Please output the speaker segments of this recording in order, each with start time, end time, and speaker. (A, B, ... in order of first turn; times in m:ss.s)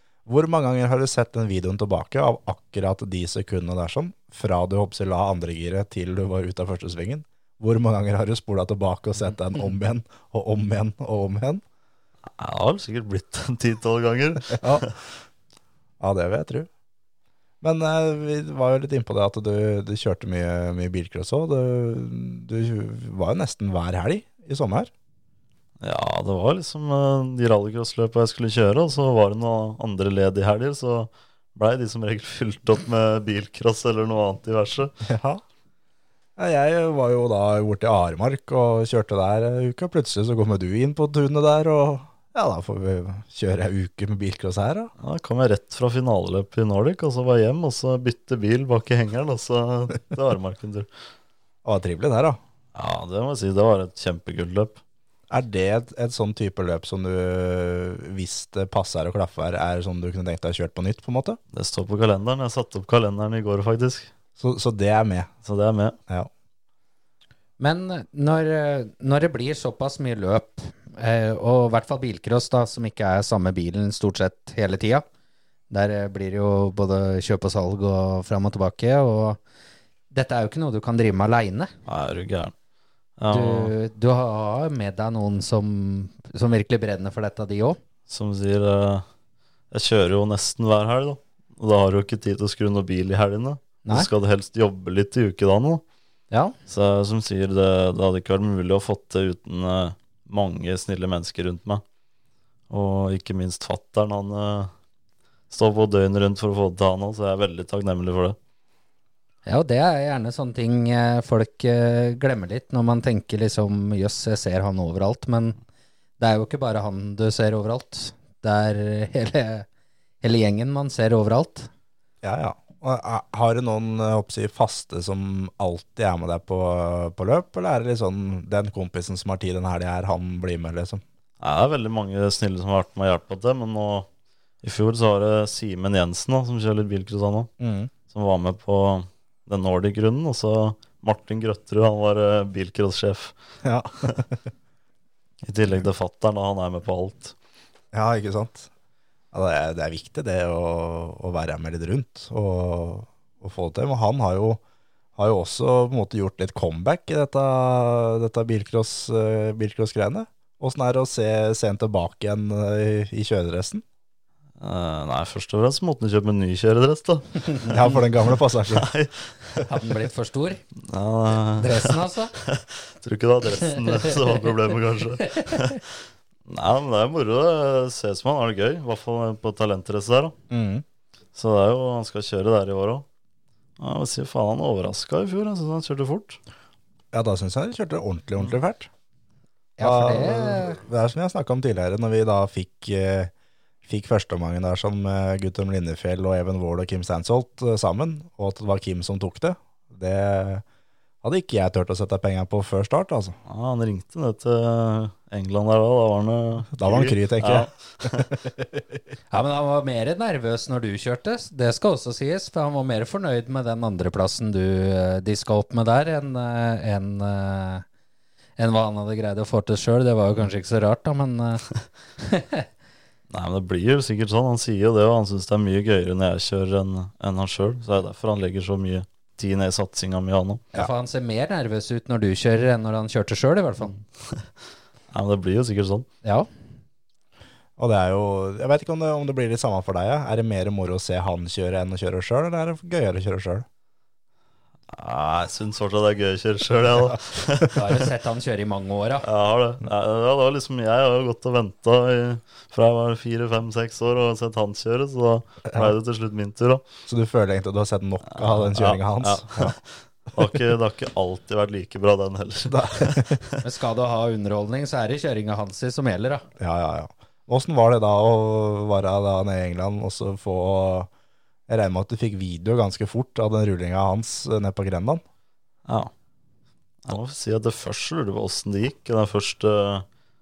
0:00.3-0:11.6 A
0:12.3-0:15.0 B
0:14.6-0:14.9 A
0:16.0-0:16.7 A
0:17.6-0:24.9 A
0:25.8-0:35.0 B
0:35.0-0:35.4 A
0:36.4-0:44.9 A
0:45.0-0:50.9 B
0:51.6-0:52.4 A
0:52.7-0:54.8 B
0:55.3-1:01.4 A
1:01.5-1:04.1 B
1:04.4-1:05.3 A
1:05.4-1:06.0 B
1:07.6-1:15.0 C
1:15.7-1:19.4 C
1:20.1-1:21.7 C
1:21.8-1:22.5 B
1:23.2-1:23.7 B
1:23.3-1:27.8 C
1:28.1-1:29.0 B
1:29.7-1:35.8 B
1:36.7-1:41.8 B
1:42.7-1:44.7 B
1:45.5-1:48.4 B
1:49.4-1:55.6 C
1:56.2-1:59.7 C
2:00.2-2:01.7 C
2:02.2-2:11.0 A
2:11.4-2:14.1 B
2:14.6-2:17.5 B
2:17.6-2:17.9 A
2:18.1-2:23.3 B
2:23.6-2:24.4 A
2:25.4-2:27.3 B
2:27.9-2:28.7 A
2:29.3-2:34.6 A
2:35.2-2:43.8 A
2:44.6-2:48.0 B
2:47.6-2:48.9 A
2:48.7-2:49.6 B
2:49.6-2:50.6 C
2:50.8-3:00.4 B
2:51.6-2:52.3 C
2:53.8-2:54.1 C
2:55.2-2:55.8 C
3:00.5-3:00.8 A
3:01.3-3:03.0 B
3:03.8-3:06.4 B
3:07.1-3:08.9 A
3:09.8-3:10.8 C
3:09.8-3:13.3 A
3:13.8-3:20.6 A
3:21.2-3:23.3 A
3:23.4-3:28.3 B
3:26.8-3:28.8 A
3:29.3-3:37.8 C
3:38.6-3:41.6 C
3:42.2-3:42.6 C
3:43.3-3:50.6 B
3:50.7-3:54.0 C
3:55.1-3:56.1 B
3:57.8-4:03.6 A
4:04.9-4:08.0 B
4:07.7-4:09.2 C
4:09.2-4:16.8 B
4:15.7-4:15.9 A
4:17.1-4:19.7 A
4:18.3-4:23.6 B
4:22.6-4:23.4 A
4:23.6-4:26.4 C
4:26.6-4:31.1 A
4:31.7-4:35.2 A
4:35.8-4:36.1 B
4:37.0-4:40.0 B